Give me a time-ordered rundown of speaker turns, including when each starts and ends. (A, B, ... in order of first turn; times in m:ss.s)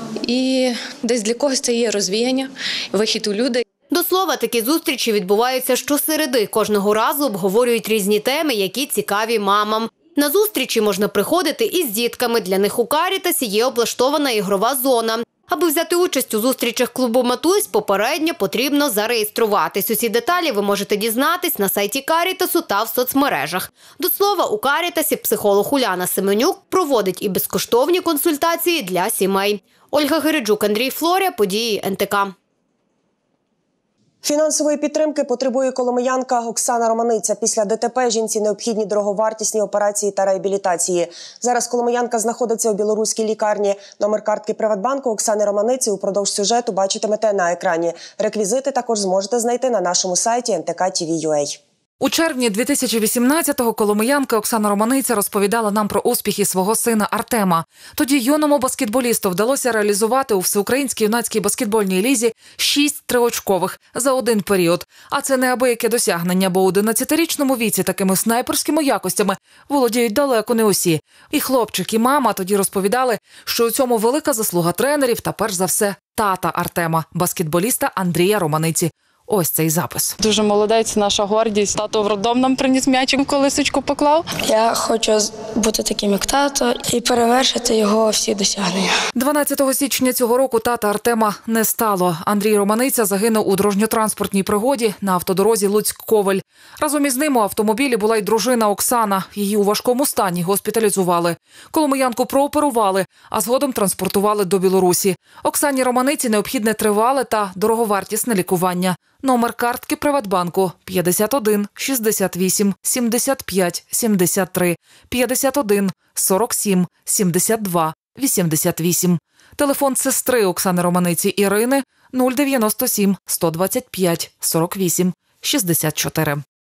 0:00.2-0:03.6 A
0:03.9-0:32.3 B
0:34.2-0:51.6 C
0:52.0-1:20.2 D
1:20.2-1:24.3 E
1:24.4-1:28.9 F
1:29.2-2:06.4 D